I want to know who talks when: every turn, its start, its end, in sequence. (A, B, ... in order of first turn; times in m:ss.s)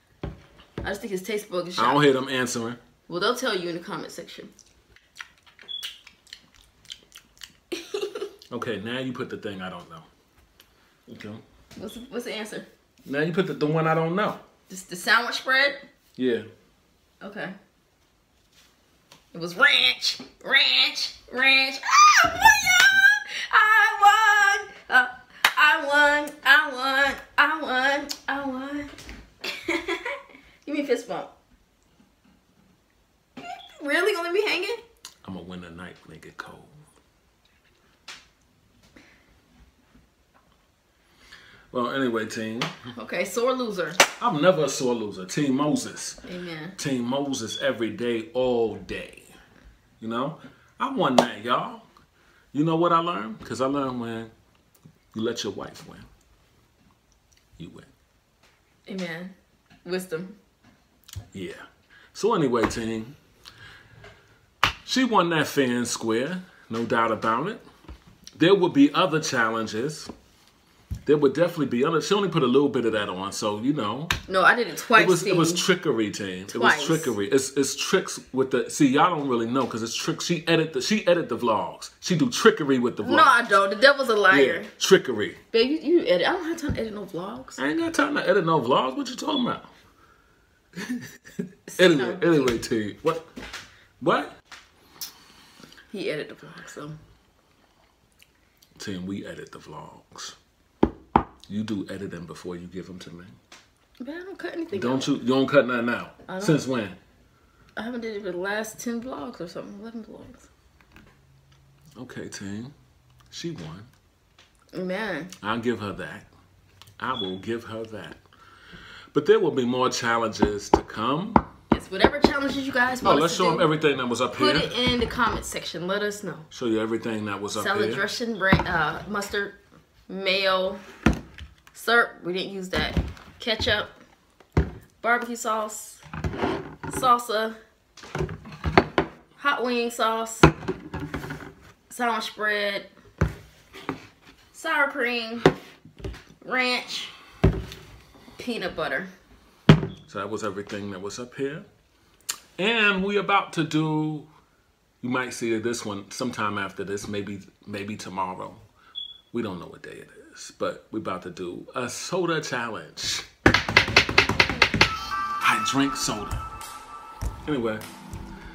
0:00.8-0:02.1 A
0:01.8-0:02.8 B
0:03.1-0:04.5 A
0:07.7-0:08.3 A
0:08.5-0:10.1 B
0:11.1-0:11.4 B
0:11.8-0:12.7 A
0:13.0-0:14.4 B
0:14.7-0:15.8 A
0:16.2-0:16.5 B
0:17.2-0:17.6 A
0:19.3-0:28.9 A
0:29.4-0:31.3 A
0:33.4-0:34.8 A
0:35.2-0:36.8 B
0:41.7-0:42.8 B
0:42.9-0:44.0 A
0:44.2-0:46.2 B
0:46.3-0:46.8 A
0:46.8-0:49.3 B
0:50.0-0:51.9 B
0:52.5-0:54.3 B
0:55.1-0:56.1 B
0:57.6-0:57.9 B
0:58.9-1:00.4 A
1:01.3-1:03.2 B
1:04.9-1:07.6 B
1:08.4-1:10.1 B
1:11.0-1:14.2 B
1:14.3-1:15.6 A
1:14.9-1:23.4 B
1:16.5-1:17.2 A
1:23.0-1:24.7 A
1:24.3-1:25.4 B
1:25.5-1:27.6 A
1:27.6-1:29.7 B
1:30.8-1:33.3 B
1:31.7-1:32.6 A
1:34.0-1:34.3 B
1:35.9-1:37.0 A
1:38.8-1:40.4 B
1:41.5-1:43.4 B
1:44.0-1:45.2 A
1:44.7-1:47.0 B
1:46.3-1:46.6 A
1:47.8-1:50.5 A
1:52.0-1:52.7 B
1:53.3-1:53.9 B
1:54.7-1:55.3 A
1:55.4-1:56.3 B
1:57.0-1:58.2 B
1:59.1-2:01.5 B
2:01.7-2:03.7 A
2:03.0-2:04.7 B
2:04.3-2:06.5 A
2:06.5-2:08.0 B
2:07.5-2:09.6 A
2:10.1-2:10.8 A
2:11.7-2:14.0 A
2:15.0-2:16.0 A
2:16.9-2:17.6 A
2:19.4-2:20.5 A
2:21.9-2:22.9 A
2:24.5-2:25.5 A
2:26.4-2:27.1 A
2:28.4-2:29.1 A
2:30.1-2:31.6 B
2:32.6-2:34.3 B
2:35.0-2:38.6 B
2:39.3-2:43.3 B
2:45.4-2:46.4 B
2:47.4-2:47.8 B